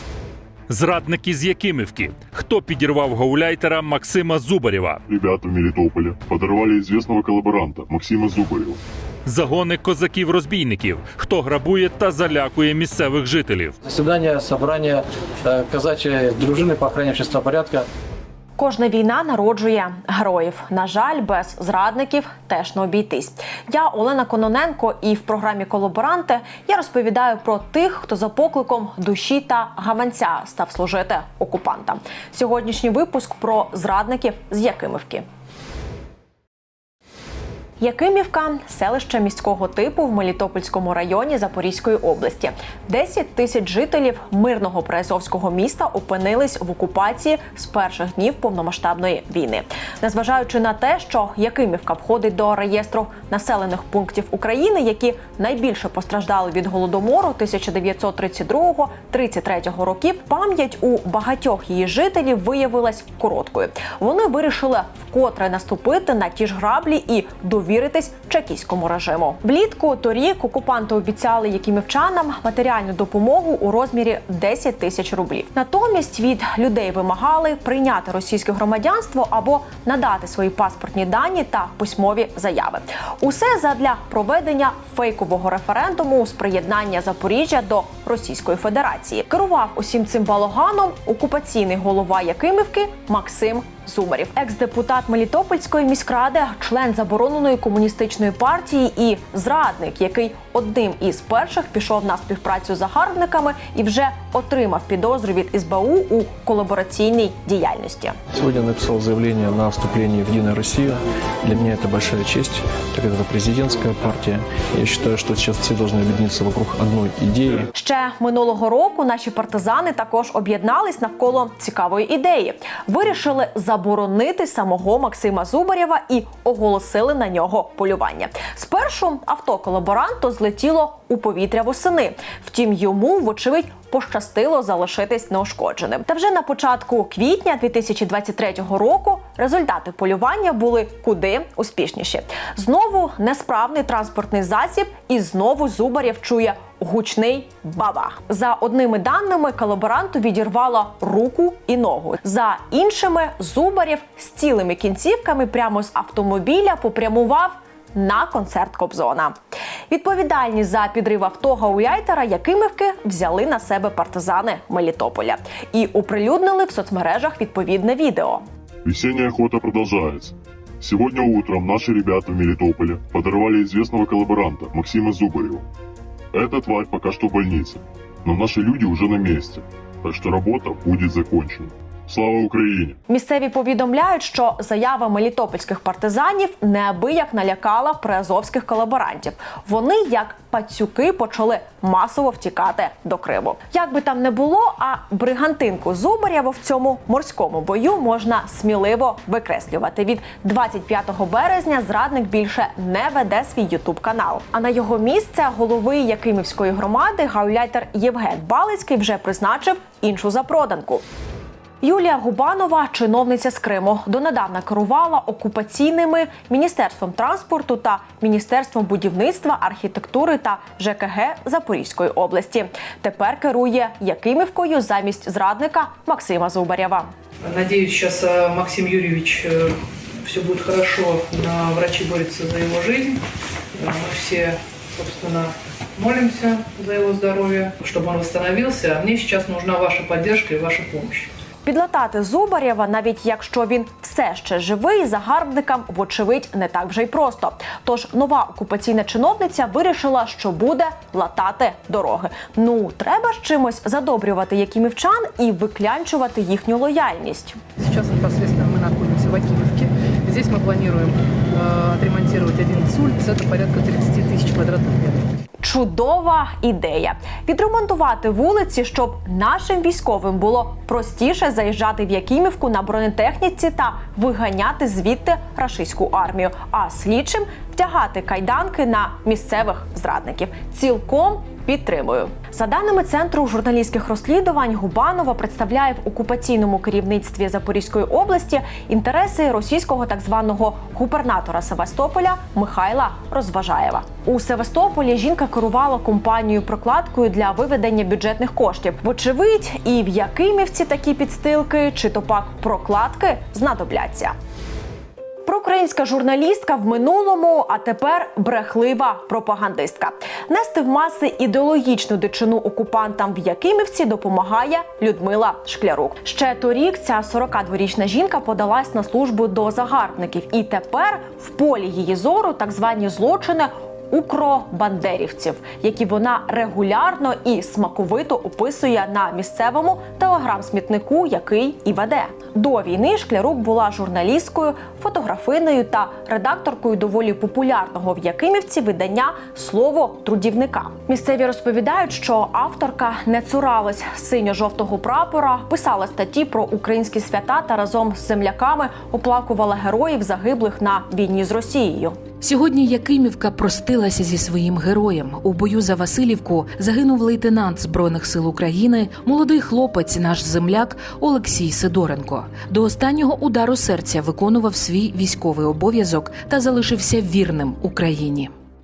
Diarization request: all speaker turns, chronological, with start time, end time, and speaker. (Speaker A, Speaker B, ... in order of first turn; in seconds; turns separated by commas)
Speaker A: 0.7-5.0, Speaker B: 5.1-8.8, Speaker A: 9.2-13.7, Speaker C: 13.8-17.9, Speaker D: 18.6-35.2, Speaker D: 37.8-108.2, Speaker E: 108.3-117.7, Speaker D: 117.7-159.3, Speaker D: 159.9-168.4, Speaker B: 168.8-175.6, Speaker B: 176.3-183.0, Speaker D: 183.1-211.0, Speaker D: 211.8-227.1, Speaker F: 227.4-233.2, Speaker F: 233.7-241.3, Speaker D: 241.6-257.6, Speaker F: 257.8-265.3, Speaker D: 265.6-304.3, Speaker D: 305.4-352.2, Speaker G: 352.4-368.5